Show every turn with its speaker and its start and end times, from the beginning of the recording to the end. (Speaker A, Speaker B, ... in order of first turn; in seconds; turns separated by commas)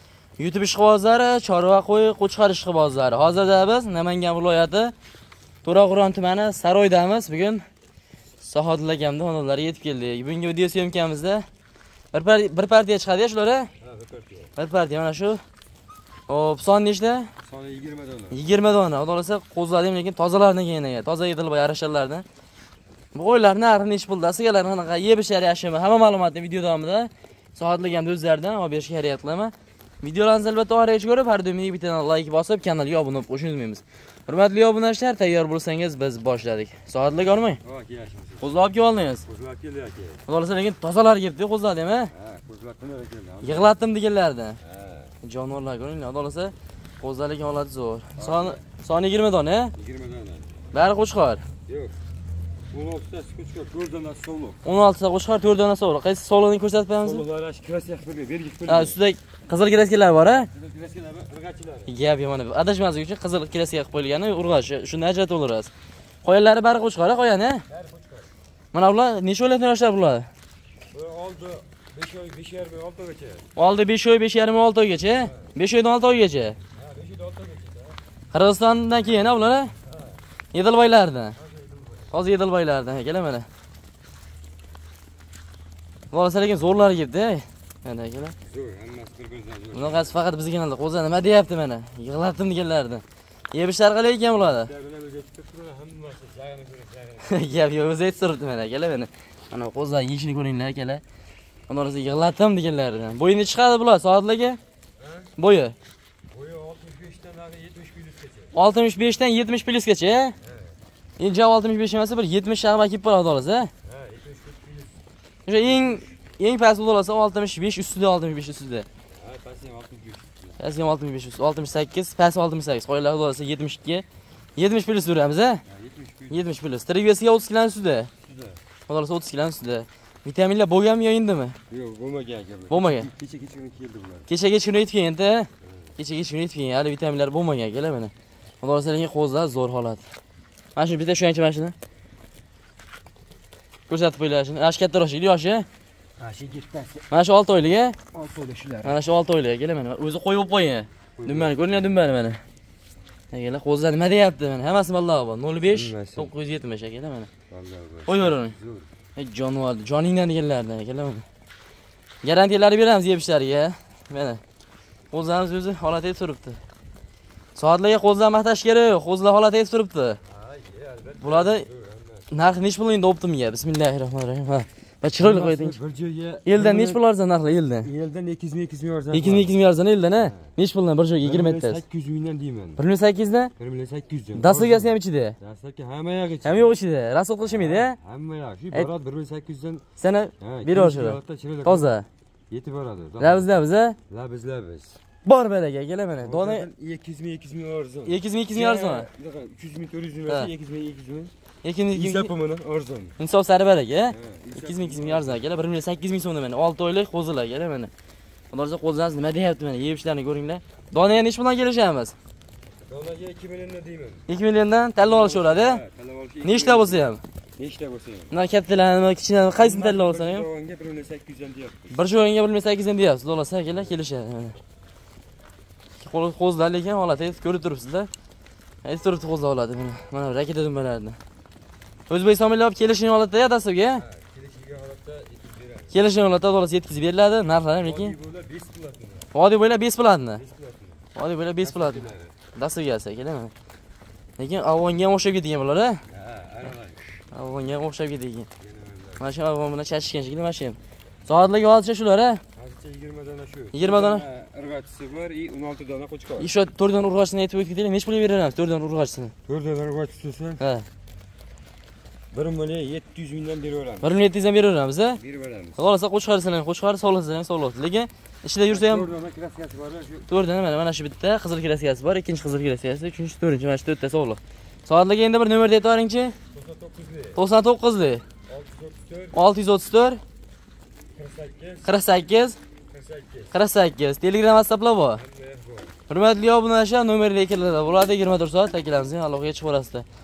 Speaker A: 0.4-4.9, Speaker A: 5.6-7.6, Speaker A: 8.4-11.4, Speaker A: 12.1-13.7, Speaker B: 13.8-14.5, Speaker A: 14.6-15.4, Speaker A: 16.3-17.3, Speaker B: 17.4-18.4, Speaker A: 18.3-22.2, Speaker A: 23.1-37.6, Speaker B: 37.6-38.5, Speaker A: 38.4-39.2, Speaker B: 39.2-40.2, Speaker A: 40.3-42.1, Speaker B: 42.1-43.7, Speaker A: 43.4-44.6, Speaker B: 44.6-45.1, Speaker A: 45.2-49.7, Speaker B: 48.1-48.6, Speaker B: 49.7-50.5, Speaker A: 50.7-51.4, Speaker B: 51.7-51.9, Speaker B: 52.7-54.6, Speaker A: 54.6-57.2, Speaker B: 57.0-59.0, Speaker A: 58.6-60.5, Speaker B: 60.3-62.0, Speaker A: 61.9-65.7, Speaker A: 66.2-67.6, Speaker B: 67.7-68.3, Speaker A: 68.7-70.3, Speaker B: 70.9-73.5, Speaker A: 73.5-76.6, Speaker B: 75.2-75.5, Speaker B: 76.7-78.0, Speaker A: 78.3-79.7, Speaker B: 79.8-80.2, Speaker A: 80.5-81.3, Speaker B: 81.3-82.1, Speaker A: 82.1-83.5, Speaker A: 86.1-88.3, Speaker B: 88.4-90.2, Speaker A: 89.7-94.7, Speaker B: 94.3-97.5, Speaker A: 97.2-101.0, Speaker A: 101.7-104.6, Speaker B: 105.0-105.3, Speaker A: 105.4-105.7, Speaker B: 106.3-108.5, Speaker A: 108.5-110.3, Speaker B: 110.4-110.8, Speaker A: 111.2-113.7, Speaker B: 113.8-115.0, Speaker A: 115.5-118.8, Speaker B: 115.6-116.1, Speaker B: 119.1-120.6, Speaker A: 120.6-124.0, Speaker A: 124.6-125.6, Speaker B: 125.7-126.4, Speaker A: 126.3-128.1, Speaker B: 128.2-128.6, Speaker A: 128.9-131.6, Speaker B: 131.7-134.3, Speaker A: 132.7-133.1, Speaker A: 134.3-140.0, Speaker B: 135.6-135.9, Speaker A: 140.8-141.7, Speaker A: 143.9-145.7, Speaker B: 146.2-147.1, Speaker A: 147.1-148.0, Speaker B: 148.1-149.0, Speaker A: 148.8-152.4, Speaker B: 151.2-152.0, Speaker A: 153.3-157.3, Speaker B: 155.7-156.3, Speaker B: 157.5-158.9, Speaker A: 158.1-158.5, Speaker A: 159.2-161.2, Speaker A: 162.2-164.4, Speaker A: 165.1-166.6, Speaker A: 167.6-170.2, Speaker B: 170.2-172.3, Speaker A: 171.2-171.6, Speaker A: 172.3-175.8, Speaker B: 175.2-177.0, Speaker A: 176.5-177.9, Speaker B: 177.8-179.6, Speaker A: 179.1-181.8, Speaker B: 180.2-180.5, Speaker B: 181.2-182.8, Speaker A: 182.8-183.5, Speaker B: 183.6-186.7, Speaker A: 184.3-185.3, Speaker A: 186.4-188.0, Speaker B: 187.5-189.8, Speaker A: 190.0-192.1, Speaker B: 190.4-191.9, Speaker B: 192.5-193.5, Speaker A: 193.2-194.0, Speaker B: 194.1-195.0, Speaker A: 195.2-196.7, Speaker B: 196.2-201.3, Speaker A: 198.1-199.1, Speaker A: 201.6-202.3, Speaker B: 201.9-203.2, Speaker A: 203.2-207.9, Speaker B: 204.1-205.5, Speaker A: 208.5-212.1, Speaker B: 212.9-214.2, Speaker A: 214.3-215.8, Speaker B: 215.0-218.3, Speaker A: 216.4-217.2, Speaker A: 218.3-220.5, Speaker B: 219.5-222.0, Speaker A: 221.9-224.6, Speaker B: 223.7-224.0, Speaker A: 226.0-228.1, Speaker A: 228.8-231.2, Speaker A: 232.1-234.0, Speaker B: 233.9-236.0, Speaker A: 235.9-238.1, Speaker B: 237.8-239.3, Speaker A: 239.3-240.4, Speaker B: 240.3-241.0, Speaker A: 241.2-243.5, Speaker B: 241.6-242.3, Speaker A: 244.4-246.0, Speaker B: 246.1-247.2, Speaker A: 247.3-248.5, Speaker B: 248.6-249.2, Speaker A: 249.2-252.4, Speaker B: 252.5-256.5, Speaker A: 253.7-254.2, Speaker A: 256.4-259.3, Speaker B: 259.5-260.6, Speaker A: 260.6-260.9, Speaker B: 262.3-264.1, Speaker A: 264.0-265.2, Speaker B: 265.1-265.8, Speaker A: 265.8-269.1, Speaker B: 268.7-270.3, Speaker A: 270.3-276.3, Speaker B: 276.5-277.4, Speaker A: 277.4-278.2, Speaker B: 278.5-279.4, Speaker A: 279.3-280.2, Speaker B: 281.1-281.9, Speaker A: 281.8-282.6, Speaker B: 282.9-283.5, Speaker A: 283.5-285.2, Speaker B: 285.2-285.9, Speaker A: 286.1-290.0